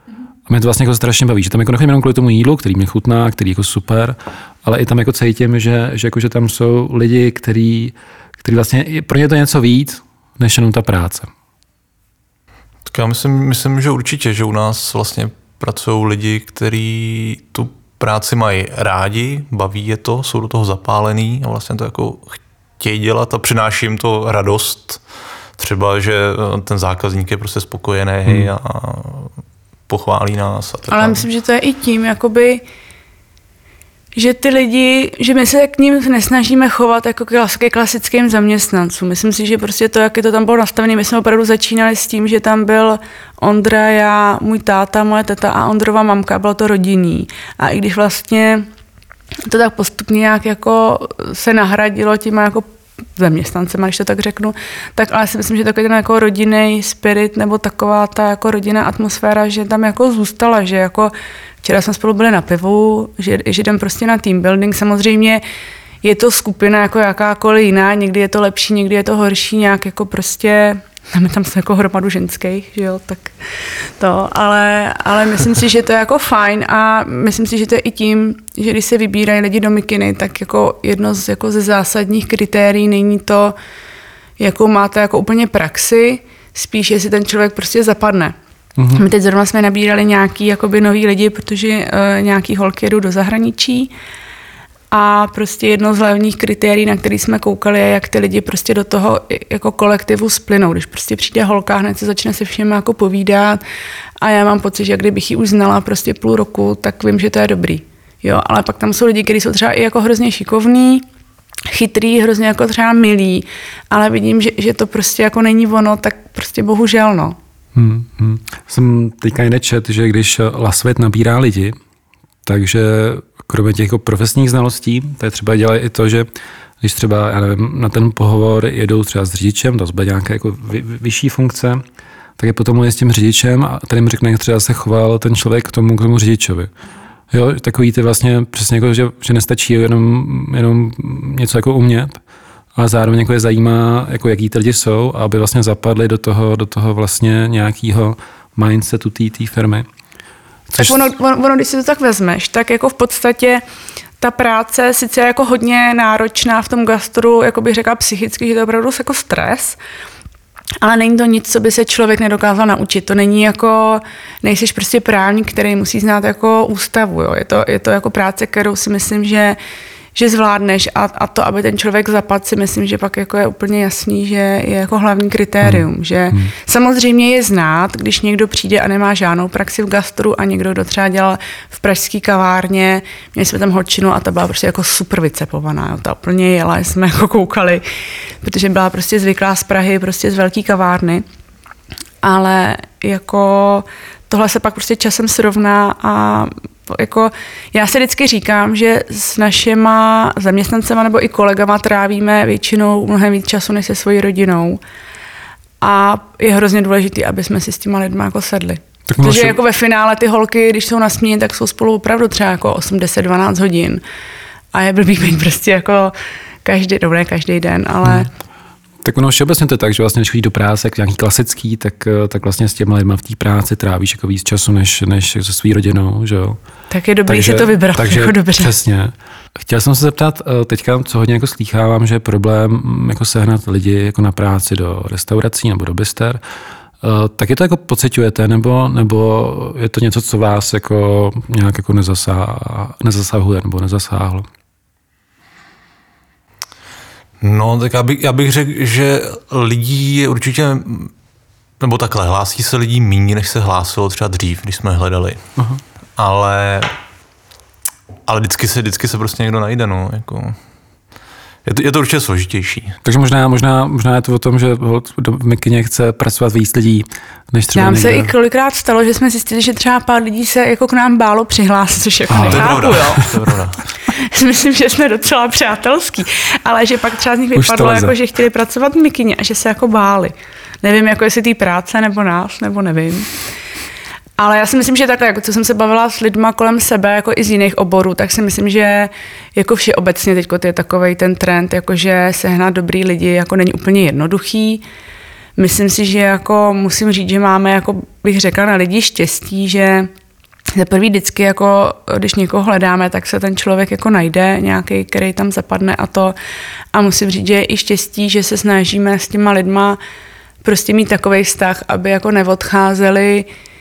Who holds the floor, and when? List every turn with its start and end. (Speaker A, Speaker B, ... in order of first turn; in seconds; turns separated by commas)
Speaker A: 0.5-11.3, Speaker B: 12.8-25.0, Speaker B: 25.6-29.3, Speaker A: 28.3-28.5, Speaker B: 29.9-31.2, Speaker C: 30.9-32.6, Speaker C: 34.1-48.7, Speaker C: 49.5-52.6, Speaker C: 53.2-61.1, Speaker C: 61.6-65.4, Speaker C: 66.0-73.3, Speaker C: 74.0-83.5, Speaker C: 84.4-88.3, Speaker A: 88.8-89.0, Speaker C: 88.9-93.9, Speaker C: 94.9-103.6, Speaker C: 104.2-111.0, Speaker C: 111.7-117.4, Speaker A: 117.7-121.8, Speaker A: 122.4-126.3, Speaker A: 126.8-131.8, Speaker A: 132.4-136.7, Speaker A: 137.3-142.2, Speaker A: 142.8-149.9, Speaker A: 150.7-151.1, Speaker C: 150.8-153.6, Speaker C: 154.2-159.8, Speaker C: 160.8-169.6, Speaker C: 170.2-187.8, Speaker A: 175.6-176.5, Speaker C: 188.4-191.2, Speaker C: 192.2-204.8, Speaker C: 205.8-214.0, Speaker A: 209.1-209.6, Speaker C: 214.7-216.1, Speaker C: 216.6-218.3, Speaker A: 219.0-226.6, Speaker C: 226.9-228.7, Speaker A: 227.2-236.4, Speaker A: 237.0-244.4, Speaker B: 247.4-251.1, Speaker B: 251.8-255.4, Speaker A: 255.6-255.8, Speaker B: 256.2-256.9, Speaker B: 258.2-260.6, Speaker B: 261.6-263.0, Speaker A: 263.0-268.3, Speaker C: 267.7-273.3, Speaker A: 272.3-273.0, Speaker B: 272.4-273.8, Speaker C: 274.1-283.3, Speaker A: 277.6-278.1, Speaker C: 284.4-294.8, Speaker C: 295.6-300.1, Speaker C: 300.7-306.4, Speaker C: 306.9-310.0, Speaker C: 310.6-313.5